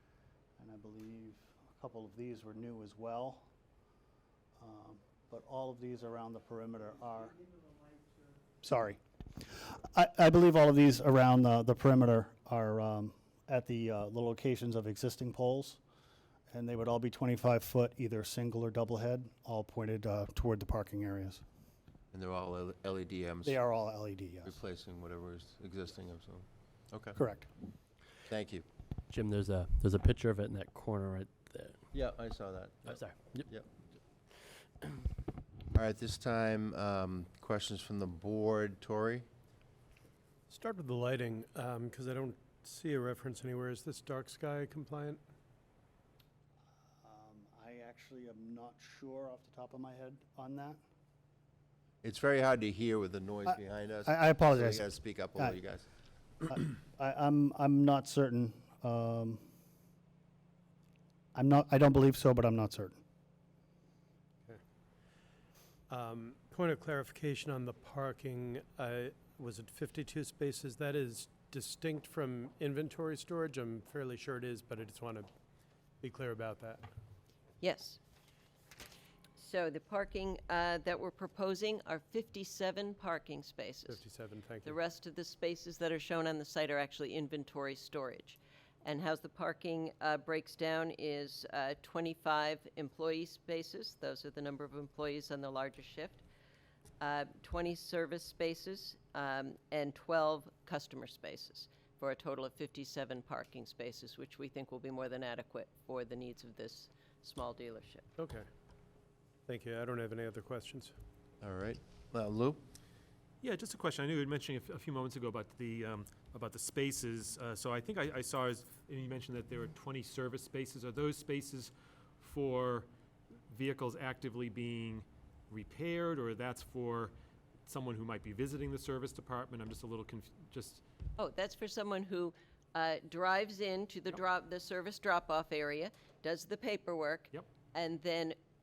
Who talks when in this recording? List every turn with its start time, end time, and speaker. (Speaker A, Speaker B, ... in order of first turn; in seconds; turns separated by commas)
Speaker A: 0.6-3.5, Speaker A: 4.6-7.4, Speaker A: 8.6-15.8, Speaker A: 16.5-21.4, Speaker B: 22.1-23.6, Speaker A: 23.4-24.6, Speaker B: 24.4-27.2, Speaker A: 27.1-27.5, Speaker B: 28.3-28.6, Speaker C: 29.1-31.8, Speaker B: 31.9-33.7, Speaker C: 32.9-33.5, Speaker B: 35.7-39.3, Speaker D: 40.5-45.2, Speaker A: 47.0-50.8, Speaker B: 52.0-55.9, Speaker A: 53.5-55.6, Speaker A: 56.5-59.4, Speaker A: 61.4-63.0, Speaker D: 65.9-75.3, Speaker D: 76.0-76.9, Speaker E: 77.6-78.0, Speaker E: 79.4-84.1, Speaker D: 83.9-84.8, Speaker E: 84.6-96.2, Speaker E: 97.0-108.0, Speaker D: 108.2-108.5, Speaker D: 109.5-111.0, Speaker B: 111.4-112.6, Speaker F: 113.4-122.9, Speaker F: 123.5-127.1, Speaker F: 127.7-130.8, Speaker E: 131.2-138.4